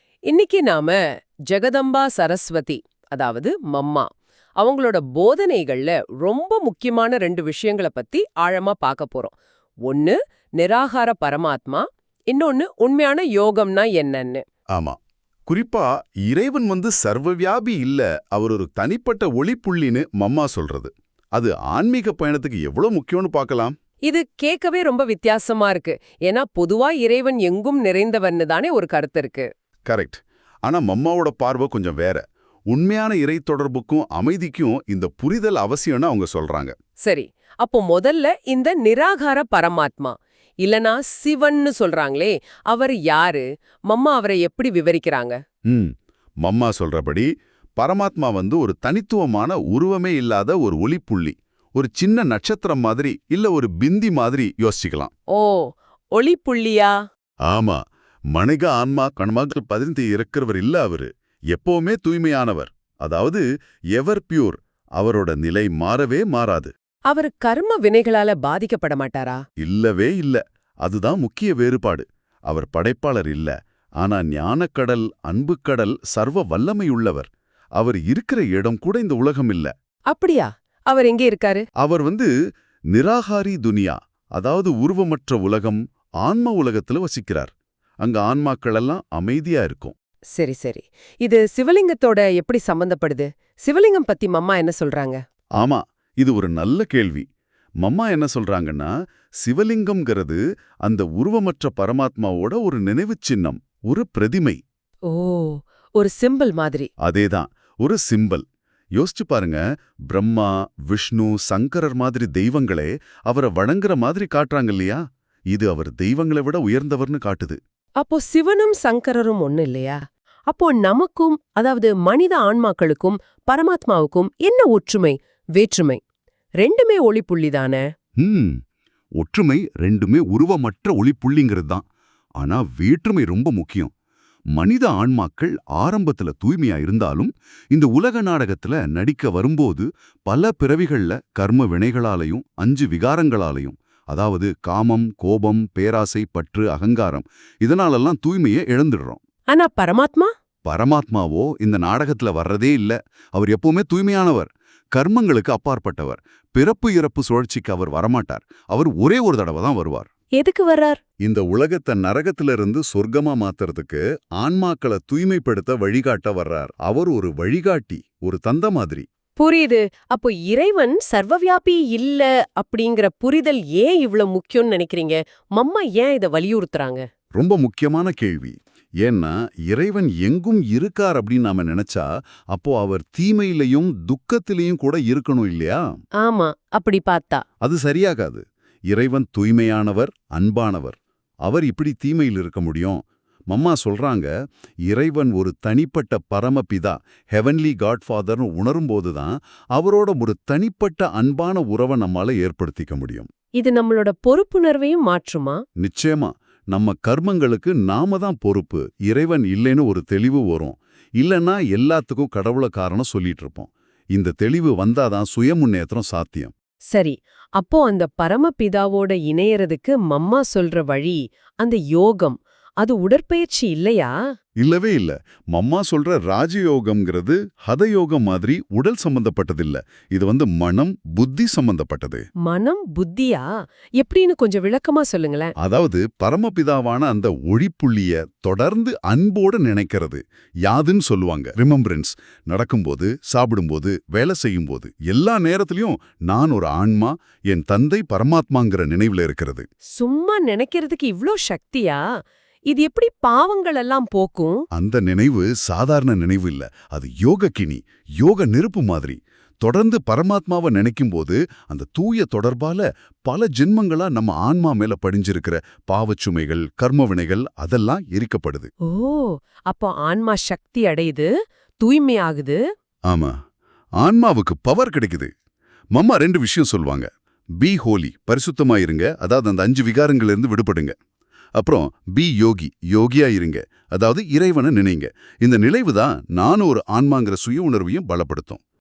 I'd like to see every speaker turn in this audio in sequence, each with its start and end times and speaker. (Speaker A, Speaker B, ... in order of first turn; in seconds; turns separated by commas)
Speaker A: 0.3-1.0, Speaker A: 1.5-4.0, Speaker A: 4.6-9.3, Speaker A: 9.9-14.4, Speaker B: 14.7-23.7, Speaker A: 24.1-29.5, Speaker B: 29.9-36.7, Speaker A: 37.0-45.4, Speaker B: 45.7-55.1, Speaker A: 55.3-57.0, Speaker B: 57.5-57.8, Speaker B: 58.3-63.4, Speaker B: 63.9-66.7, Speaker A: 67.1-69.4, Speaker B: 69.6-79.7, Speaker A: 80.1-81.6, Speaker B: 81.8-82.3, Speaker B: 82.9-89.9, Speaker A: 90.3-95.2, Speaker B: 95.6-97.2, Speaker B: 97.8-98.9, Speaker B: 99.4-104.6, Speaker A: 105.1-106.9, Speaker B: 107.0-108.4, Speaker B: 109.0-115.0, Speaker B: 115.5-117.6, Speaker A: 118.0-126.0, Speaker A: 126.6-127.8, Speaker B: 128.2-128.6, Speaker B: 129.2-131.8, Speaker B: 132.4-133.9, Speaker B: 134.5-149.2, Speaker A: 149.5-150.3, Speaker B: 150.7-160.1, Speaker A: 160.4-161.0, Speaker B: 161.2-169.1, Speaker A: 169.4-177.0, Speaker B: 177.3-186.0, Speaker A: 186.2-187.4, Speaker B: 187.6-194.3, Speaker B: 194.9-203.3, Speaker A: 203.6-205.6, Speaker B: 205.8-216.5, Speaker A: 216.9-224.1, Speaker B: 224.6-232.2, Speaker A: 232.4-233.4, Speaker A: 234.0-235.5, Speaker B: 235.6-249.7, Speaker A: 249.9-252.0, Speaker A: 252.7-254.6, Speaker B: 254.7-268.7, Speaker A: 268.9-271.3, Speaker A: 271.8-272.6, Speaker B: 273.1-273.4, Speaker B: 274.0-275.3, Speaker B: 275.9-277.1, Speaker B: 277.6-280.9, Speaker B: 281.6-288.6